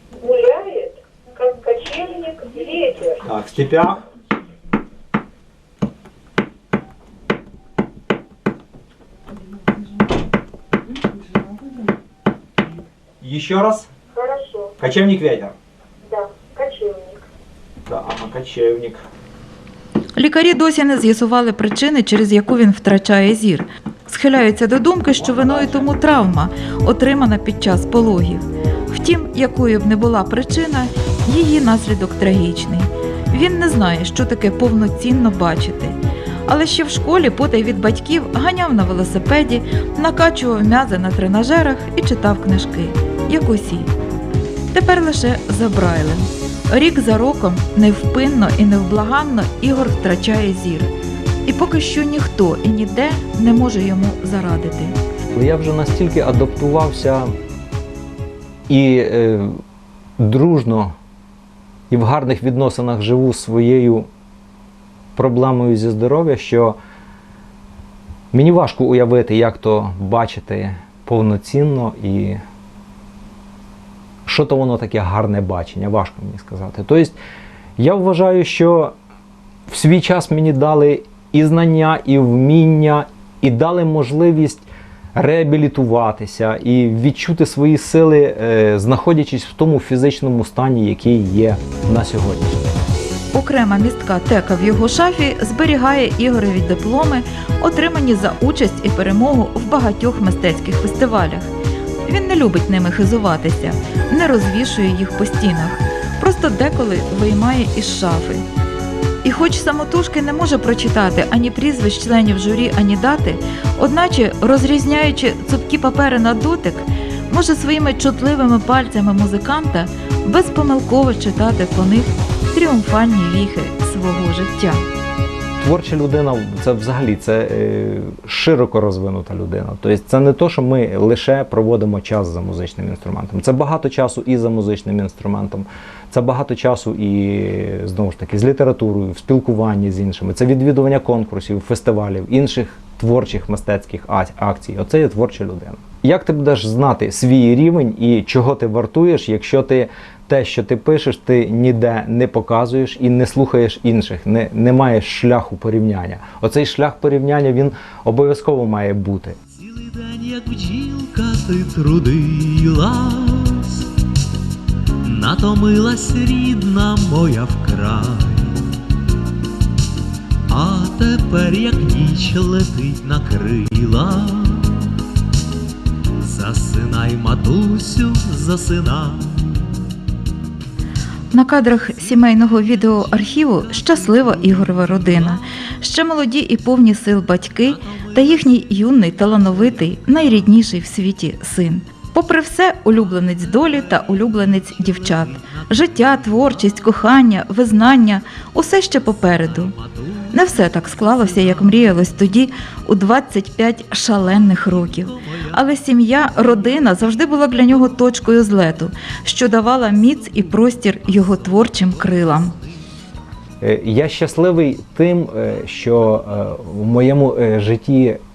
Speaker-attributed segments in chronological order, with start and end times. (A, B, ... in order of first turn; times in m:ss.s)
0:00.2-0:03.2 A
0:03.2-0:04.0 B
0:13.2-0:13.9 B
0:14.2-0:14.7 A
0:14.8-0:15.5 B
0:16.1-0:17.1 A
0:17.9-0:19.0 B
0:20.2-0:43.9 C
0:44.7-0:50.9 C
0:51.5-0:55.0 C
0:55.3-0:57.3 B
0:58.7-0:59.6 B
1:00.2-1:00.9 B
1:01.9-1:04.1 B
1:05.2-1:06.8 B
1:08.3-1:12.4 B
1:14.3-1:17.2 B
1:17.8-1:18.9 B
1:19.7-1:32.7 B
1:33.3-1:41.5 C
1:42.1-1:48.4 C
1:49.2-2:04.8 C
2:05.6-2:39.4 B
2:39.6-2:43.8 D
2:45.0-2:48.6 D
2:50.5-2:54.7 D
2:56.2-2:59.5 D
3:01.3-3:19.8 C
3:15.1-3:15.5 D
3:20.3-3:32.6 C
3:24.5-3:25.5 D
3:33.6-3:38.2 B